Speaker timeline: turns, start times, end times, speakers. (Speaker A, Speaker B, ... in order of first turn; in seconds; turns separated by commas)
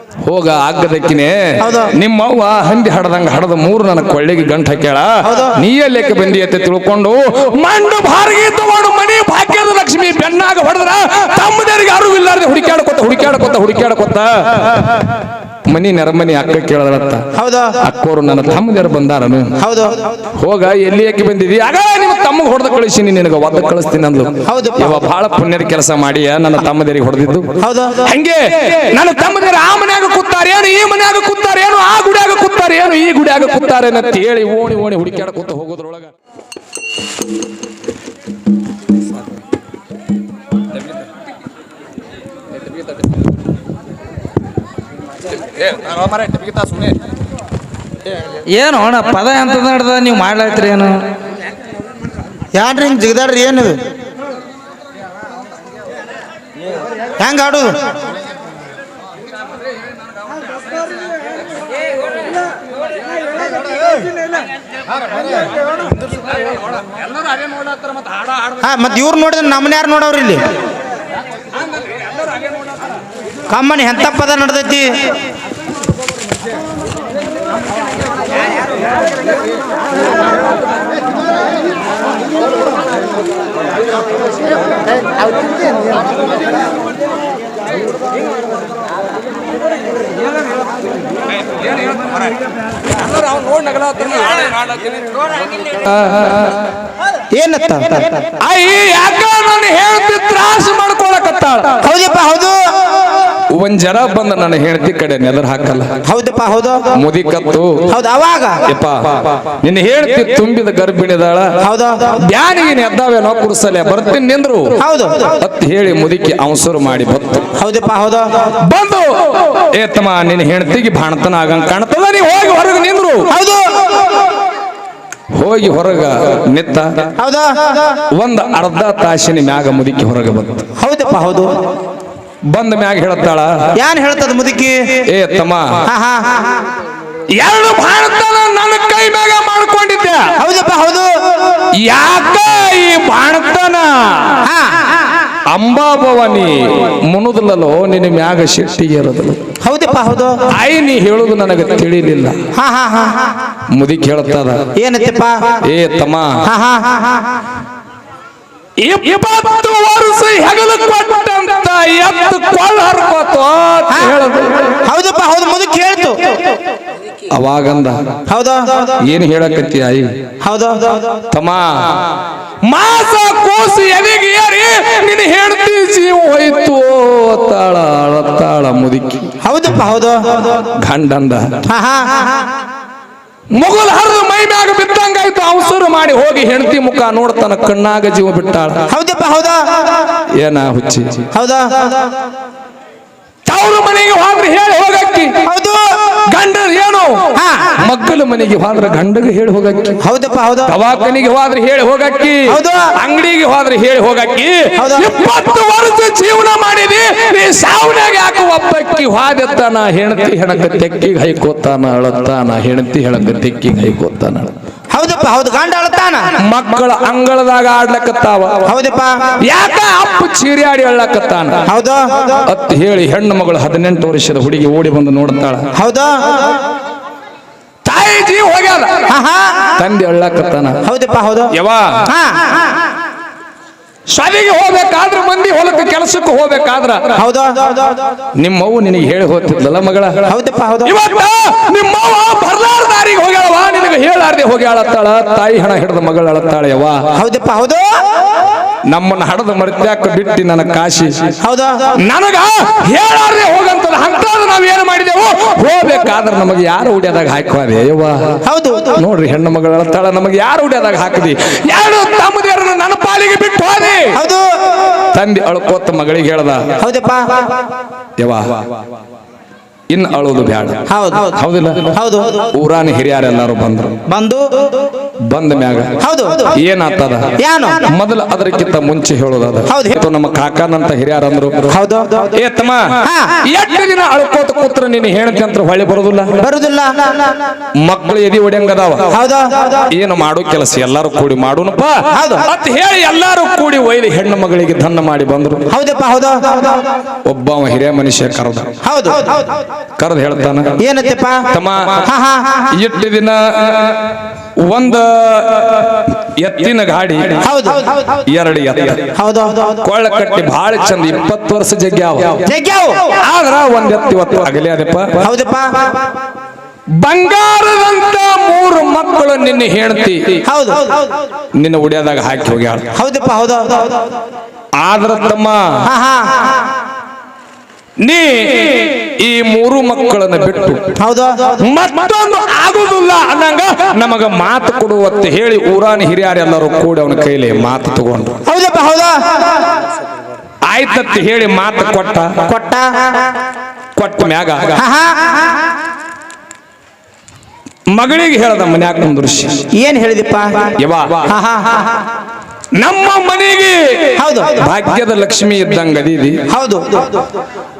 Speaker A: 0.2-15.1, Speaker B: 1.6-1.9, Speaker B: 5.2-5.6, Speaker A: 15.7-17.3, Speaker B: 17.3-17.8, Speaker A: 17.8-19.6, Speaker B: 19.6-20.1, Speaker A: 20.4-36.1, Speaker B: 24.4-25.0, Speaker B: 27.6-28.1, Speaker A: 46.0-46.5, Speaker C: 48.5-51.1, Speaker B: 52.5-53.8, Speaker B: 57.2-57.8, Speaker B: 68.6-70.4, Speaker B: 73.5-74.9, Speaker A: 93.0-94.7, Speaker A: 95.7-96.6, Speaker B: 97.3-98.2, Speaker A: 98.4-101.8, Speaker B: 101.8-103.0, Speaker A: 103.5-105.9, Speaker B: 106.0-106.9, Speaker A: 106.9-107.9, Speaker B: 107.9-108.6, Speaker A: 108.7-111.6, Speaker B: 111.6-112.2, Speaker A: 112.2-114.8, Speaker B: 114.8-115.4, Speaker A: 115.4-117.5, Speaker B: 117.5-118.5, Speaker A: 118.6-123.3, Speaker B: 123.2-124.1, Speaker A: 125.3-127.1, Speaker B: 127.2-128.0, Speaker A: 128.1-130.7, Speaker B: 130.8-131.5, Speaker A: 132.5-133.8, Speaker B: 133.7-135.0, Speaker A: 135.1-135.8, Speaker B: 135.8-136.6, Speaker A: 137.3-140.3, Speaker B: 140.4-141.7, Speaker A: 141.8-144.4, Speaker B: 144.4-145.0, Speaker A: 145.5-149.4, Speaker B: 149.6-150.4, Speaker A: 150.5-152.5, Speaker B: 152.5-153.4, Speaker A: 153.7-154.7, Speaker B: 154.7-155.6, Speaker A: 155.6-156.4, Speaker B: 156.4-157.4, Speaker A: 158.8-164.8, Speaker B: 163.9-164.2, Speaker B: 164.8-166.6, Speaker A: 167.3-168.0, Speaker B: 168.3-169.0, Speaker A: 169.0-170.2, Speaker B: 170.4-171.2, Speaker A: 171.3-179.3, Speaker B: 179.4-180.6, Speaker A: 180.6-181.6, Speaker B: 181.7-182.4, Speaker A: 183.5-188.9, Speaker B: 188.9-190.0, Speaker A: 190.4-191.2, Speaker B: 191.3-192.1, Speaker A: 193.5-195.4, Speaker B: 195.4-195.9, Speaker A: 196.1-200.0, Speaker B: 197.3-197.8, Speaker B: 200.0-200.7, Speaker A: 200.7-214.5, Speaker B: 202.5-202.9, Speaker B: 204.7-205.1, Speaker B: 214.9-216.3, Speaker A: 216.4-218.7, Speaker B: 218.6-219.3, Speaker A: 219.4-221.7, Speaker B: 221.7-222.4, Speaker A: 222.4-225.7, Speaker B: 225.7-226.6, Speaker A: 227.8-229.1, Speaker B: 229.1-229.8, Speaker A: 229.8-230.8, Speaker B: 230.8-231.5, Speaker A: 231.5-232.1, Speaker B: 232.1-232.7, Speaker A: 234.1-237.2, Speaker B: 237.1-238.0, Speaker A: 238.4-240.3, Speaker B: 240.3-240.9, Speaker A: 240.8-247.1, Speaker B: 247.1-247.9, Speaker A: 248.9-251.3, Speaker B: 251.4-251.9, Speaker A: 252.0-258.4, Speaker B: 258.4-259.0, Speaker A: 258.9-264.2, Speaker B: 264.1-264.9, Speaker A: 265.1-266.7, Speaker B: 266.8-267.6, Speaker A: 268.2-268.6, Speaker A: 269.9-272.0, Speaker B: 270.9-271.4, Speaker B: 271.9-272.5, Speaker A: 272.5-274.0, Speaker B: 274.1-274.5, Speaker A: 275.3-275.9, Speaker B: 276.0-276.5, Speaker A: 276.5-277.3, Speaker B: 277.4-277.9, Speaker A: 277.9-281.7, Speaker B: 279.7-280.0, Speaker B: 281.7-282.3, Speaker A: 282.3-286.4, Speaker B: 283.0-283.4, Speaker B: 286.4-287.4, Speaker A: 287.8-289.1, Speaker B: 289.1-289.9, Speaker A: 289.9-295.7, Speaker B: 292.1-292.4, Speaker B: 295.7-296.9, Speaker A: 297.2-298.7, Speaker B: 298.8-299.5, Speaker A: 300.0-300.8, Speaker B: 300.8-301.5, Speaker A: 301.5-302.1, Speaker B: 302.0-302.7, Speaker A: 302.7-307.4, Speaker B: 307.4-308.2, Speaker A: 308.1-309.1, Speaker B: 309.1-309.8, Speaker A: 309.8-312.4, Speaker B: 312.4-313.1, Speaker A: 313.1-315.2, Speaker B: 315.2-316.0, Speaker A: 317.0-320.4, Speaker B: 320.4-321.1, Speaker A: 321.6-322.9, Speaker B: 322.9-324.0, Speaker A: 324.8-325.8, Speaker B: 325.8-326.6, Speaker A: 328.0-330.9, Speaker B: 330.9-331.6, Speaker A: 331.6-338.4, Speaker B: 338.4-339.6, Speaker A: 340.7-342.5, Speaker B: 342.4-343.1, Speaker A: 343.9-344.8, Speaker B: 344.7-345.6, Speaker A: 347.9-349.6, Speaker B: 349.7-350.7, Speaker A: 350.8-351.3, Speaker B: 351.2-352.1, Speaker A: 352.7-356.4, Speaker B: 354.1-354.6, Speaker B: 356.5-357.2